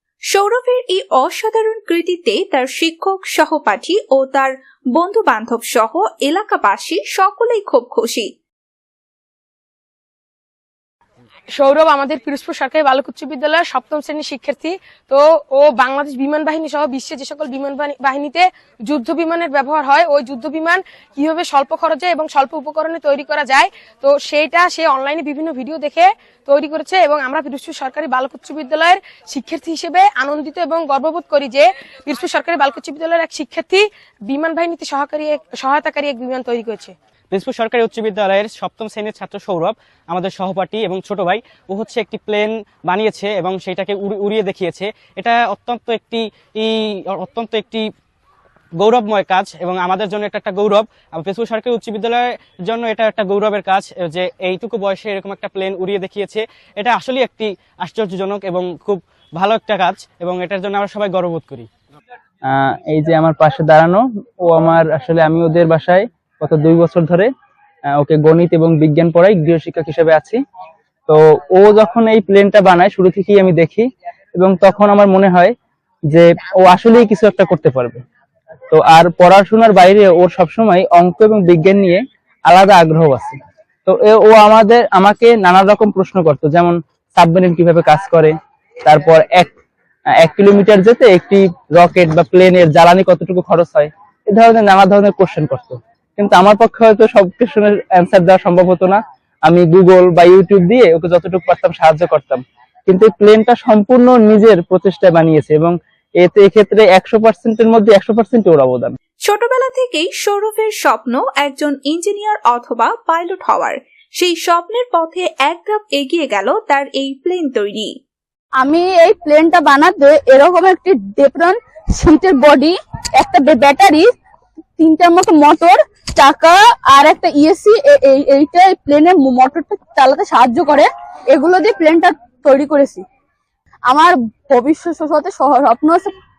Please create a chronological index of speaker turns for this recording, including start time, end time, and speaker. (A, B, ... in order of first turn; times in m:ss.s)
0:00.3-0:08.3 A
0:11.6-0:36.9 B
0:37.3-0:47.8 C
0:48.8-1:01.7 C
1:02.4-1:07.3 D
1:07.9-1:10.4 D
1:11.1-1:15.5 D
1:16.1-1:18.0 D
1:18.7-1:29.5 D
1:30.1-1:49.0 D
1:49.3-1:57.9 A
1:58.6-2:04.1 E
2:04.8-2:13.0 E
2:13.9-2:16.1 E